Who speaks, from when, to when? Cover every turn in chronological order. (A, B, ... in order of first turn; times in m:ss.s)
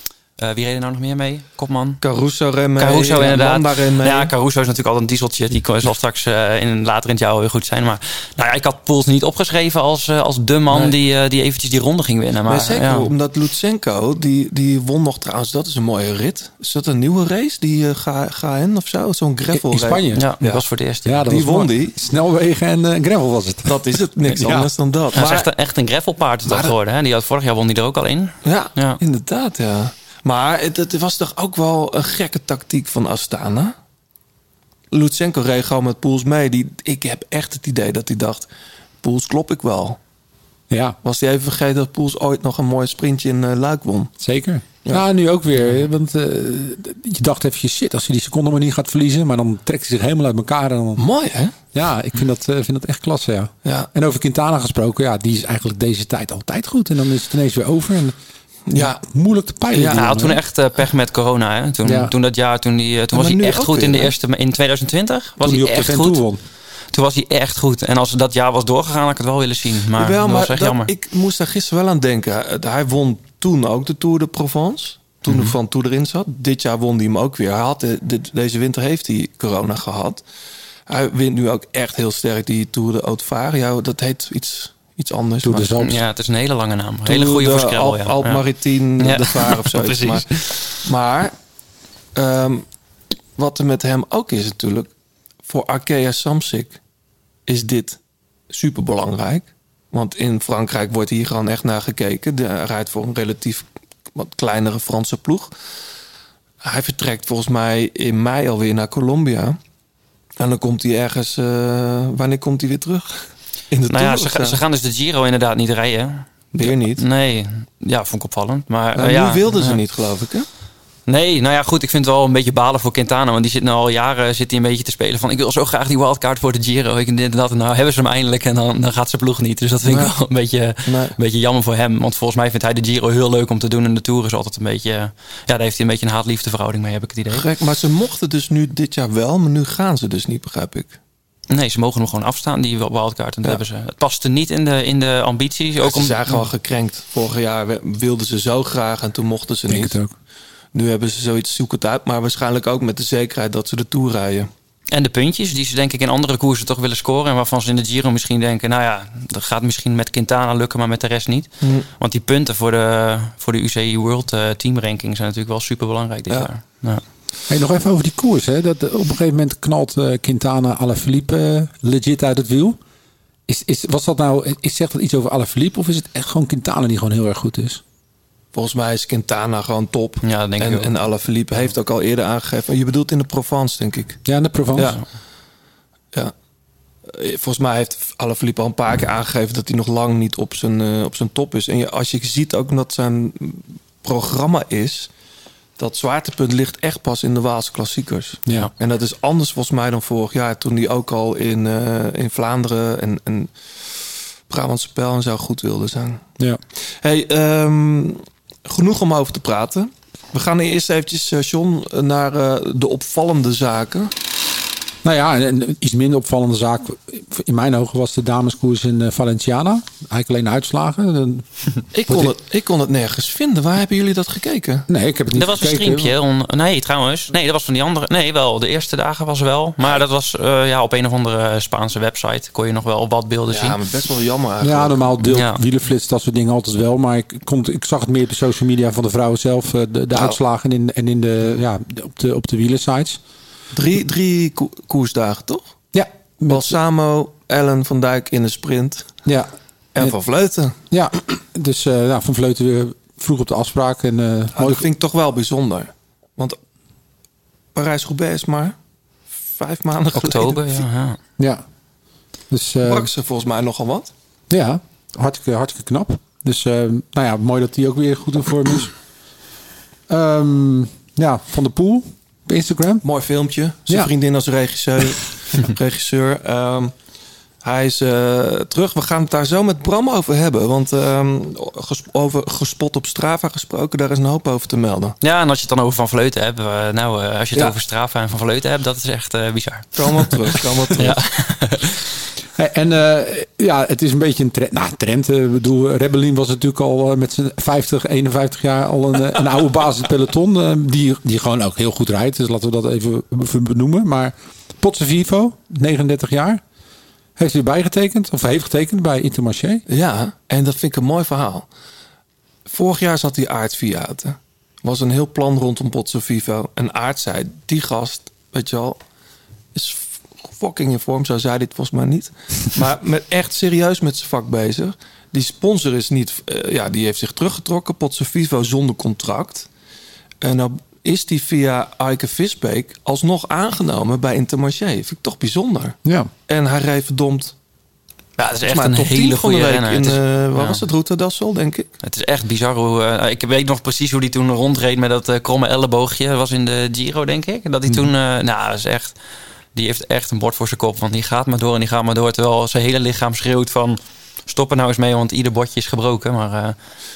0:00.4-0:02.0 A
0:02.0-0:04.3 B
0:02.8-0:13.1 A
0:10.7-0:10.9 B
0:12.5-0:20.6 B
0:19.5-0:20.3 C
0:20.1-0:21.3 A
0:21.0-0:24.7 C
0:21.3-0:22.0 B
0:23.6-0:25.5 B
0:25.1-0:29.0 A
0:26.4-0:26.7 B
0:28.4-0:33.7 B
0:34.9-0:38.5 B
0:39.0-0:40.0 B
0:40.7-0:41.0 C
0:41.0-0:44.1 B
0:44.2-0:51.0 C
0:51.0-0:51.5 B
0:51.7-0:58.2 C
0:58.7-0:59.0 B
0:58.7-1:00.4 C
0:59.7-1:00.2 B
0:59.9-1:06.2 A
1:01.8-1:02.1 C
1:03.1-1:04.1 B
1:05.4-1:06.4 C
1:06.9-1:10.9 A
1:10.0-1:20.2 B
1:20.9-1:25.8 B
1:25.4-1:26.0 C
1:25.8-1:28.4 A
1:27.0-1:31.3 B
1:29.0-1:30.8 A
1:32.1-1:32.6 B
1:33.4-1:34.9 B
1:35.4-1:36.8 B
1:37.5-1:38.0 B
1:38.5-1:45.5 B
1:46.6-1:49.6 B
1:50.4-1:54.6 B
1:53.9-1:59.8 A
1:56.5-1:57.0 B
1:58.9-2:00.5 B
2:01.1-2:17.4 A
2:09.8-2:10.1 B
2:10.8-2:11.1 B
2:17.3-2:21.0 B
2:21.5-2:26.2 A
2:25.8-2:30.0 B
2:29.7-2:30.1 C
2:30.7-2:34.5 B
2:34.9-2:47.0 A
2:41.6-2:41.9 B
2:47.5-2:52.8 C
2:53.5-2:57.8 C
2:58.5-3:04.2 B
3:00.2-3:00.9 A
3:04.2-3:05.0 C
3:04.7-3:05.0 B
3:07.1-3:15.1 B
3:15.8-3:26.2 B
3:27.0-3:34.1 B
3:35.0-3:42.3 C
3:41.9-3:44.9 B
3:44.9-3:46.1 C
3:45.3-3:53.8 A
3:53.5-3:55.2 B
3:54.6-4:03.2 C
3:55.2-3:55.6 A
4:03.7-4:05.6 B
4:05.9-4:06.8 C
4:06.5-4:09.1 B
4:09.2-4:10.2 C
4:09.9-4:10.7 B
4:10.9-4:14.8 C
4:14.5-4:16.6 B
4:17.7-4:18.7 B
4:19.3-4:20.8 B
4:20.1-4:21.2 A
4:21.4-4:21.6 C
4:22.5-4:23.1 C
4:22.8-4:24.1 B
4:24.5-4:28.9 C
4:30.1-4:33.0 C
4:33.0-4:36.9 B
4:37.6-4:45.2 B
4:45.2-4:50.3 A
4:49.9-4:51.2 B
4:50.9-4:52.0 A
4:52.5-5:06.6 C
5:07.4-5:09.8 C
5:09.9-5:11.6 B
5:12.7-5:19.0 B
5:19.7-5:29.7 B
5:30.4-5:36.0 B
5:36.0-5:36.3 C
5:36.5-5:37.5 B
5:38.4-5:40.8 A
5:38.6-5:41.9 B
5:42.0-5:49.2 A
5:49.7-5:56.8 A